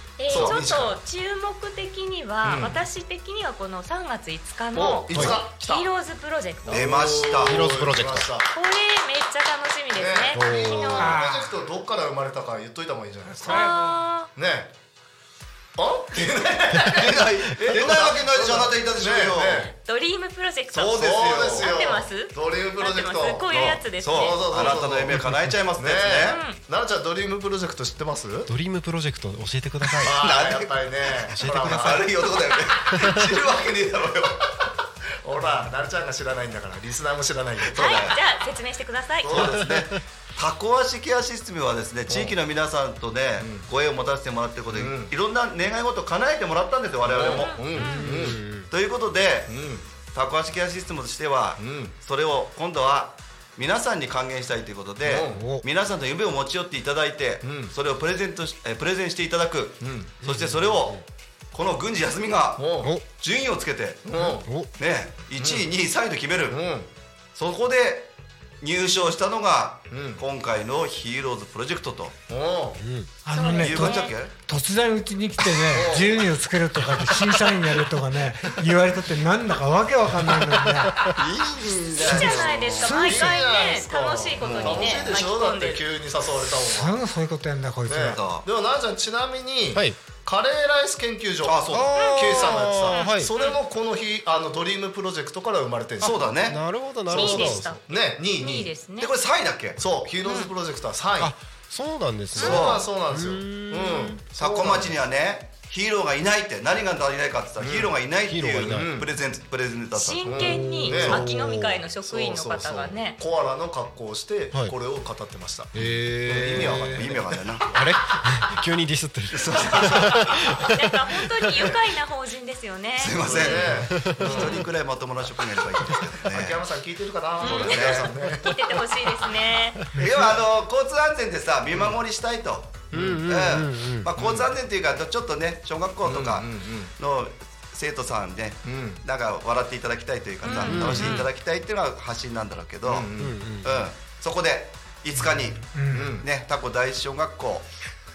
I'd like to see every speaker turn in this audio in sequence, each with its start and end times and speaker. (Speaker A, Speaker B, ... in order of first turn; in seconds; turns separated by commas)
Speaker A: 0.2-6.9, Speaker B: 0.3-1.0, Speaker B: 2.4-2.9, Speaker B: 4.7-5.9, Speaker C: 5.1-5.4, Speaker B: 6.7-8.5, Speaker D: 6.7-7.8, Speaker C: 7.4-8.3, Speaker A: 8.5-11.2, Speaker B: 9.9-13.7, Speaker C: 10.3-11.1, Speaker E: 11.0-11.6, Speaker E: 13.3-14.0, Speaker A: 13.5-14.3, Speaker B: 14.3-14.7, Speaker B: 15.8-19.7, Speaker D: 16.8-19.7, Speaker A: 19.7-24.8, Speaker D: 20.7-21.7, Speaker B: 20.8-28.5, Speaker D: 23.5-26.4, Speaker C: 25.1-25.5, Speaker A: 26.3-26.6, Speaker C: 28.5-30.1, Speaker B: 30.0-32.3, Speaker D: 30.0-34.4, Speaker C: 31.4-32.1, Speaker C: 32.9-33.3, Speaker B: 35.2-38.1, Speaker D: 37.6-38.2, Speaker A: 37.8-39.5, Speaker B: 39.2-39.7, Speaker D: 39.3-47.6, Speaker C: 39.5-39.9, Speaker B: 42.1-42.4, Speaker B: 43.4-43.7, Speaker B: 44.7-45.1, Speaker B: 47.0-48.4, Speaker A: 47.3-48.4, Speaker C: 47.8-48.7, Speaker D: 48.7-66.6, Speaker B: 49.5-49.9, Speaker B: 51.6-52.0, Speaker B: 55.0-55.5, Speaker C: 55.3-55.6, Speaker B: 57.4-57.7, Speaker B: 59.8-60.2, Speaker C: 60.2-61.0, Speaker B: 62.6-63.0, Speaker B: 64.0-64.5, Speaker C: 64.4-64.7, Speaker B: 65.3-65.7, Speaker B: 66.5-66.9, Speaker D: 67.3-72.2, Speaker B: 69.9-70.2, Speaker B: 72.3-72.8, Speaker C: 72.8-73.1, Speaker E: 73.2-81.0, Speaker A: 73.3-74.2, Speaker D: 73.6-74.3, Speaker B: 75.7-76.2, Speaker D: 81.2-82.9, Speaker A: 82.0-85.9, Speaker B: 82.1-82.5, Speaker E: 82.8-83.4, Speaker B: 83.0-87.0, Speaker D: 84.4-85.2, Speaker E: 86.7-88.2, Speaker B: 87.9-96.4, Speaker D: 88.1-88.5, Speaker C: 89.7-90.0, Speaker D: 91.4-92.2, Speaker C: 91.7-93.3, Speaker A: 92.0-93.6, Speaker D: 96.0-96.6, Speaker C: 96.5-97.8, Speaker B: 97.1-98.7, Speaker A: 97.1-99.1, Speaker D: 99.0-99.8, Speaker B: 99.8-101.3, Speaker A: 100.2-100.5, Speaker C: 101.2-104.2, Speaker A: 102.4-102.8, Speaker B: 102.4-105.0, Speaker D: 102.4-102.8, Speaker D: 104.4-110.4, Speaker B: 107.6-108.0, Speaker C: 108.3-109.0, Speaker B: 108.6-109.1, Speaker A: 110.0-113.2, Speaker B: 110.2-117.9, Speaker C: 110.4-111.7, Speaker C: 115.8-117.1, Speaker D: 116.4-117.7, Speaker C: 117.7-121.0, Speaker D: 119.3-120.4, Speaker A: 120.7-123.4, Speaker D: 123.0-126.6, Speaker B: 123.2-124.7, Speaker C: 123.8-124.6, Speaker B: 126.2-128.9, Speaker A: 127.4-129.8, Speaker D: 127.5-128.1, Speaker D: 129.9-143.1, Speaker B: 131.7-132.0, Speaker C: 132.9-134.1, Speaker B: 132.9-133.2, Speaker B: 134.2-134.5, Speaker B: 136.0-136.9, Speaker B: 138.6-139.0, Speaker A: 140.4-141.3, Speaker C: 140.7-141.2, Speaker B: 140.8-141.1, Speaker B: 142.8-143.4, Speaker C: 143.2-143.9, Speaker D: 143.6-147.7, Speaker E: 145.2-146.2, Speaker B: 145.9-146.3